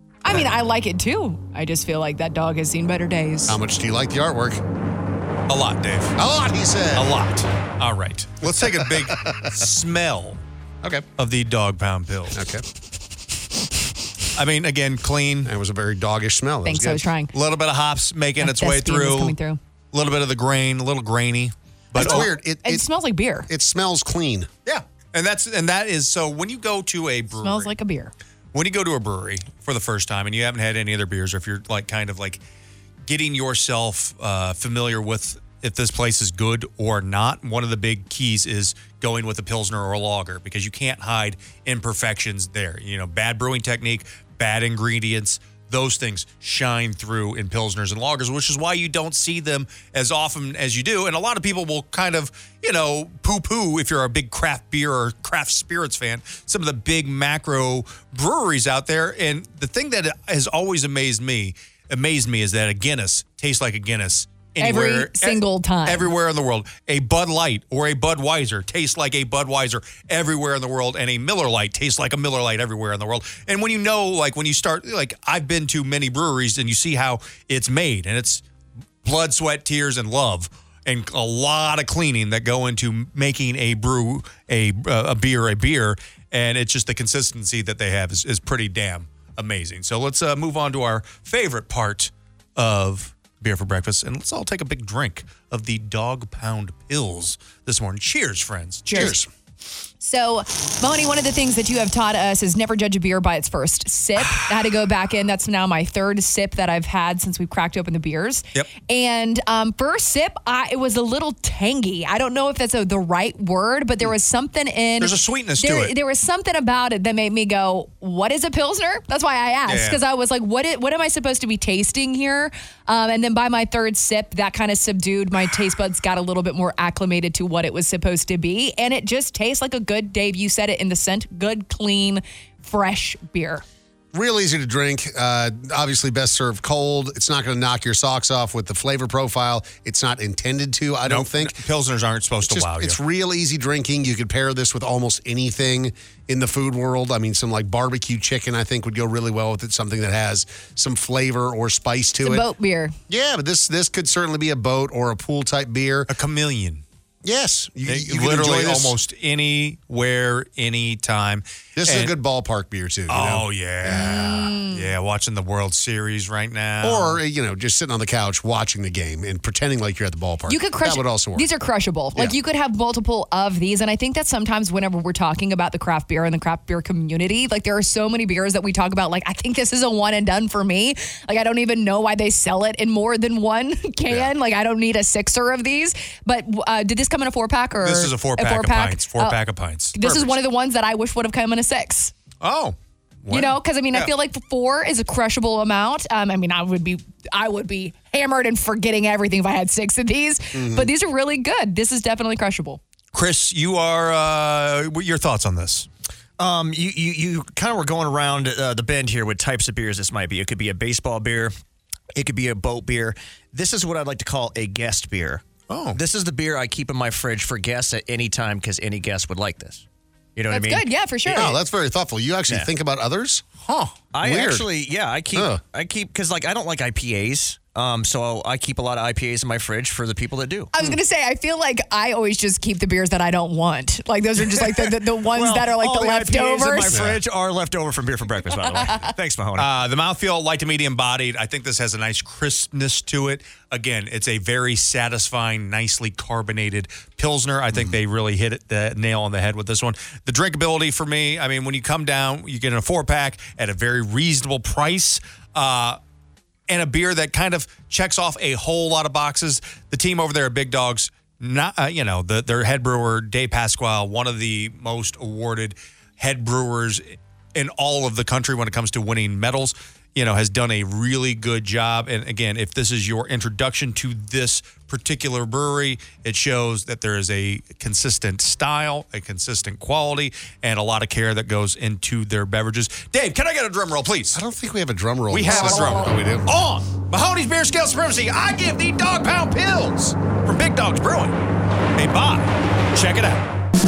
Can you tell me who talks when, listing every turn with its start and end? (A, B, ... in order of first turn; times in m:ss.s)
0:00.2-0:03.6 A
0:03.5-0:04.6 B
0:05.5-0:06.2 C
0:06.2-0:07.2 B
0:06.9-0:10.4 C
0:08.6-0:09.4 B
0:11.2-0:12.6 C
0:12.3-0:12.6 B
0:14.3-0:15.5 C
0:15.4-0:17.1 B
0:16.6-0:17.3 A
0:17.3-0:19.4 C
0:18.4-0:19.6 A
0:19.9-0:22.3 C
0:22.0-0:22.8 B
0:22.0-0:23.5 A
0:23.5-0:24.5 B
0:24.7-0:27.7 C
0:27.4-0:28.1 A
0:28.5-0:32.4 C
0:33.1-1:18.4 C
1:04.6-1:06.1 A
1:19.0-1:39.2 C
1:38.9-1:39.2 A
1:38.9-1:39.3 B
1:40.0-2:13.6 A
1:55.0-1:55.9 C
1:59.7-2:00.0 C
2:14.1-2:21.6 B
2:21.1-2:23.0 C
2:22.4-2:32.5 B
2:32.2-2:33.0 A
2:33.1-2:36.1 B
2:36.1-2:36.8 C
2:37.2-2:39.0 B
2:37.8-2:42.2 C
2:41.8-2:44.1 B
2:43.1-2:47.2 C
2:43.8-2:44.9 A
2:46.8-2:51.5 B
2:50.5-3:09.4 A
3:07.8-3:10.4 C
3:09.9-3:12.1 A
3:12.4-3:14.1 C
3:13.3-3:22.8 A
3:20.5-3:20.9 B
3:23.1-3:25.9 C
3:26.4-3:31.5 D
3:32.1-3:40.9 D
3:35.7-3:36.0 C
3:40.5-3:41.6 A
3:41.3-3:43.4 B
3:43.6-3:44.0 C
3:44.1-3:50.7 D
3:44.2-3:44.7 B
3:45.3-3:45.6 B
3:50.7-3:57.0 A
3:54.6-3:59.7 D
3:56.9-3:57.2 B
3:58.6-3:59.1 A
3:59.6-4:16.0 C
4:16.7-4:44.4 C
4:44.3-4:46.5 B
4:45.3-4:51.4 C
4:45.5-4:46.2 A
4:52.0-4:53.5 C